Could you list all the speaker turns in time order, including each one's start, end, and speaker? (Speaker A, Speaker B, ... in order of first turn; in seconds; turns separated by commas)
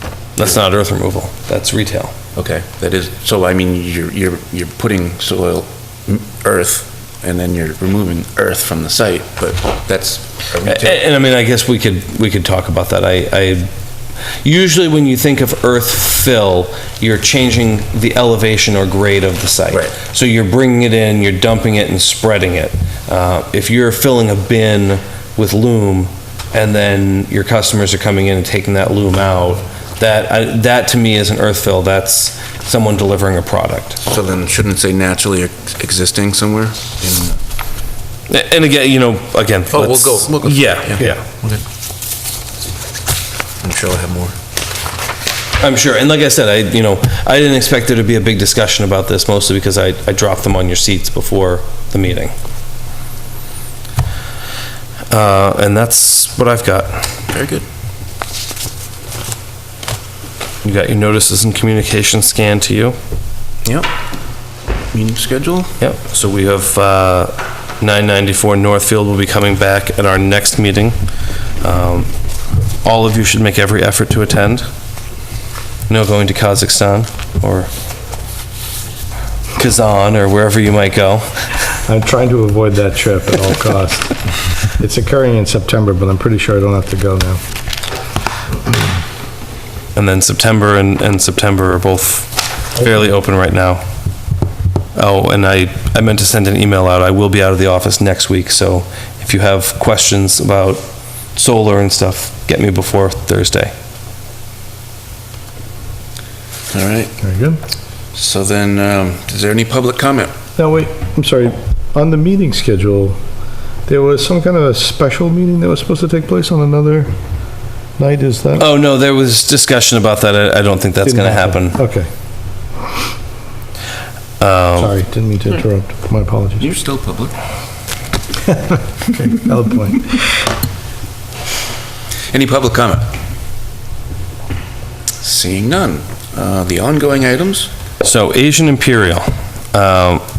Speaker A: 0.4-2.1, Speaker B: 2.4-11.0, Speaker A: 10.7-13.7, Speaker A: 14.4-34.0, Speaker B: 34.1-37.4, Speaker A: 38.3-41.2, Speaker B: 39.7-41.6, Speaker B: 43.6-44.4, Speaker A: 45.6-52.3, Speaker A: 55.1-57.2, Speaker B: 57.3-57.6, Speaker A: 60.6-63.0, Speaker B: 63.6-63.9, Speaker B: 64.9-65.8, Speaker A: 65.8-71.0, Speaker A: 71.6-72.1, Speaker A: 72.8-74.7, Speaker A: 75.9-77.7, Speaker A: 79.5-81.3, Speaker C: 81.8-84.2, Speaker C: 84.8-87.4, Speaker A: 89.9-93.8, Speaker A: 94.9-100.8, Speaker A: 101.3-103.7, Speaker B: 106.7-107.2, Speaker C: 107.2-107.6, Speaker B: 108.1-110.3, Speaker C: 110.6-113.2, Speaker C: 113.8-117.1, Speaker C: 118.0-118.7, Speaker A: 118.6-121.8, Speaker C: 121.0-122.1, Speaker A: 124.4-124.9, Speaker C: 124.8-126.7, Speaker B: 126.6-127.3, Speaker C: 128.5-130.3, Speaker B: 132.3-133.1, Speaker B: 135.2-137.7, Speaker A: 138.0-140.2